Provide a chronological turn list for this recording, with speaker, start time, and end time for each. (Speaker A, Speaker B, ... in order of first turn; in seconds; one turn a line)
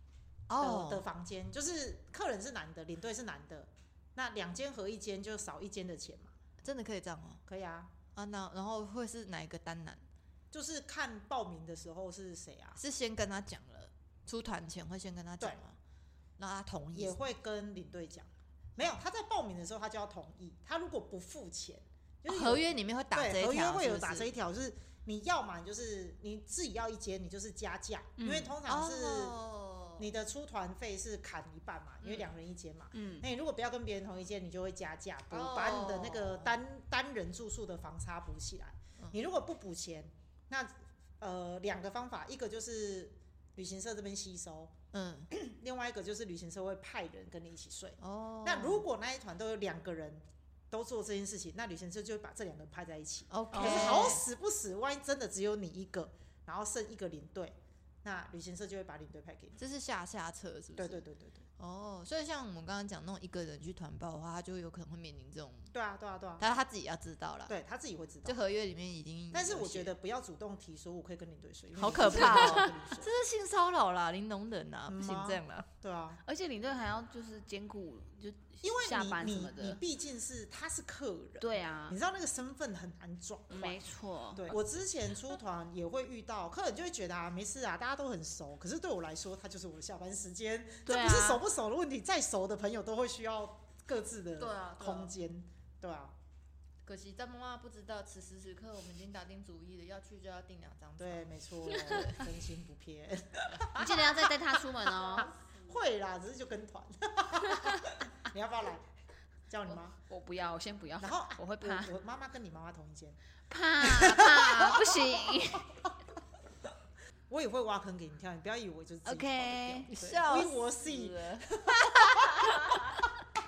Speaker A: 0.5-1.1
Speaker B: 0.6-6.3
Speaker A: 6.6-7.4
Speaker B: 7.5-8.0
Speaker A: 8.2-10.1
Speaker B: 10.5-12.8
Speaker A: 12.8-15.8
Speaker A: 16.4-17.2
Speaker B: 16.9-29.4
Speaker A: 22.3-24.3
Speaker C: 28.2-28.6
Speaker A: 28.6-30.1
Speaker B: 30.0-44.7
Speaker A: 32.0-32.3
Speaker C: 33.0-33.2
Speaker A: 35.3-36.6
Speaker A: 44.9-45.3
Speaker B: 45.3-59.6
Speaker A: 48.0-48.9
Speaker A: 53.3-54.2
Speaker A: 59.6-61.0
Speaker B: 60.8-61.5
Speaker A: 61.6-65.7
Speaker B: 65.7-66.5
Speaker A: 66.4-67.5
Speaker B: 67.5-68.4
Speaker A: 68.2-69.9
Speaker B: 69.3-73.1
Speaker A: 71.8-75.7
Speaker B: 74.9-76.2
Speaker C: 76.3-79.8
Speaker B: 78.6-83.8
Speaker C: 81.4-82.0
Speaker C: 83.5-84.5
Speaker B: 84.3-96.2
Speaker C: 90.9-91.4
Speaker A: 94.4-95.2
Speaker A: 96.8-102.0
Speaker B: 101.0-103.7
Speaker C: 101.9-102.1
Speaker A: 103.6-104.1
Speaker C: 103.8-105.3
Speaker B: 105.0-108.9
Speaker B: 109.5-110.0
Speaker C: 110.1-111.9
Speaker B: 111.0-113.2
Speaker C: 113.5-115.7
Speaker B: 113.8-115.1
Speaker B: 117.3-122.8
Speaker C: 119.0-119.9
Speaker A: 119.9-123.0